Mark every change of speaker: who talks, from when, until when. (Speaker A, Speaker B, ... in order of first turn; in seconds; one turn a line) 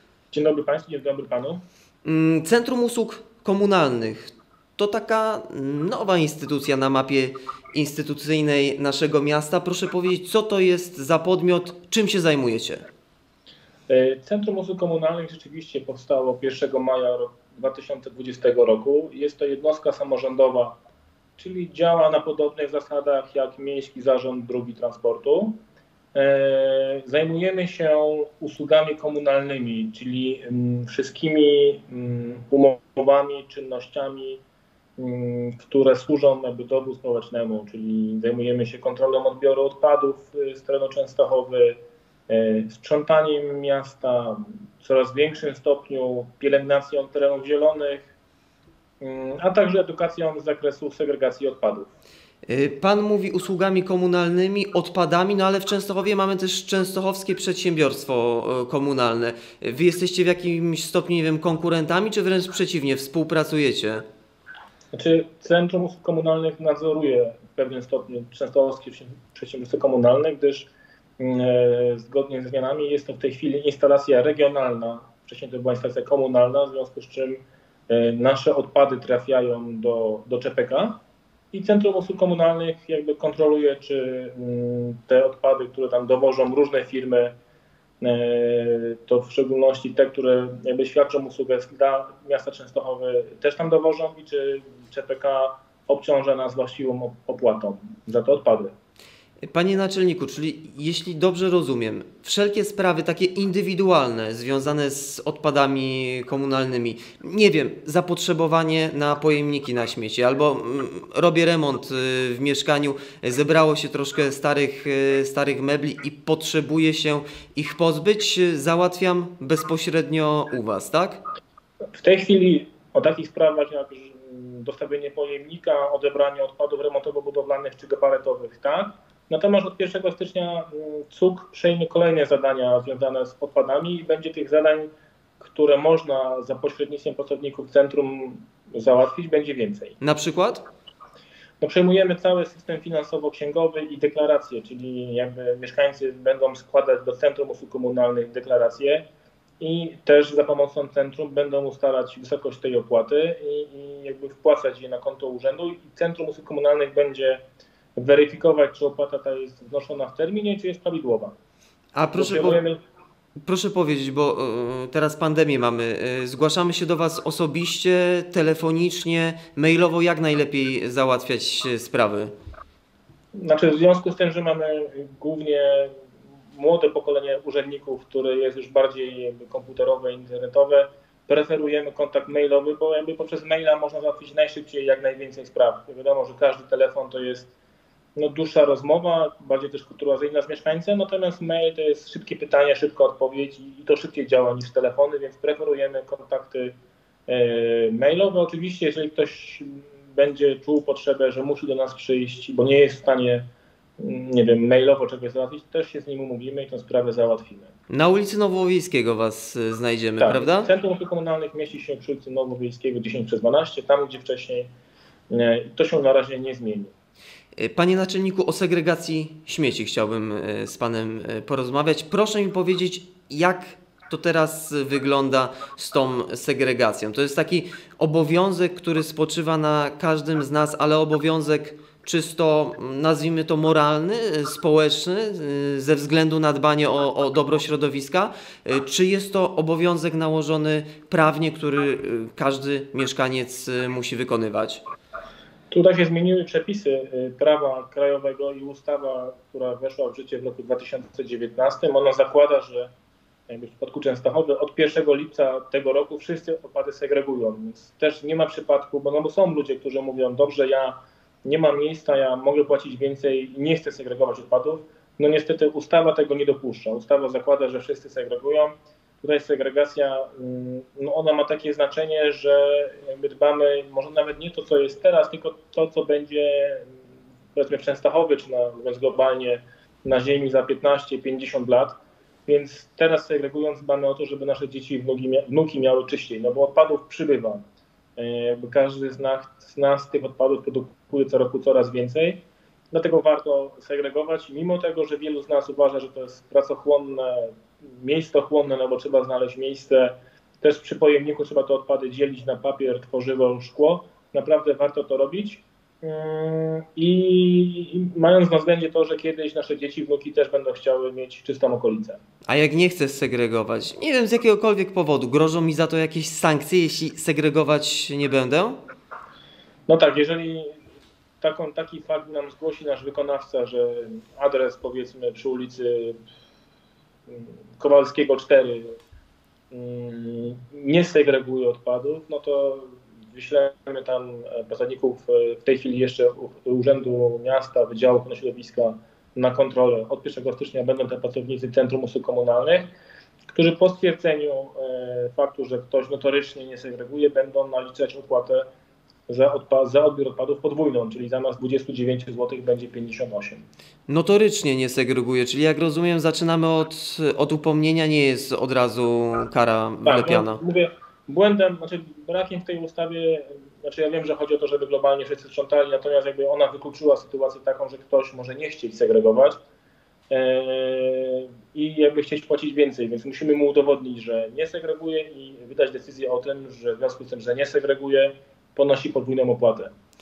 Speaker A: 0.3-1.6
Speaker B: 2.0-12.8
Speaker A: 13.9-20.8
Speaker A: 21.4-25.6
Speaker A: 26.1-34.4
Speaker A: 35.0-48.1
Speaker A: 49.0-51.9
Speaker B: 52.5-64.0
Speaker A: 64.9-81.0
Speaker A: 81.5-87.3
Speaker A: 88.0-98.7
Speaker B: 99.5-121.2
Speaker A: 122.0-140.0
Speaker B: 140.0-140.6
Speaker A: 141.6-149.1
Speaker A: 149.6-157.4
Speaker A: 158.0-161.4
Speaker B: 161.9-162.6
Speaker A: 162.1-162.8
Speaker B: 163.4-172.3
Speaker A: 173.4-176.0
Speaker A: 176.5-187.5
Speaker A: 188.2-196.8
Speaker A: 197.3-203.4
Speaker A: 204.0-207.7
Speaker B: 207.9-210.7
Speaker A: 210.2-214.7
Speaker A: 215.3-216.9
Speaker B: 217.6-244.8
Speaker A: 245.7-252.9
Speaker A: 253.5-276.9
Speaker A: 277.6-287.6
Speaker A: 288.2-312.2
Speaker B: 312.5-318.8
Speaker A: 319.9-320.8
Speaker A: 321.4-326.2
Speaker A: 327.3-329.0
Speaker A: 329.7-342.9
Speaker A: 343.5-348.6
Speaker A: 349.3-353.6
Speaker B: 354.1-360.6
Speaker A: 360.0-369.6
Speaker A: 370.3-379.9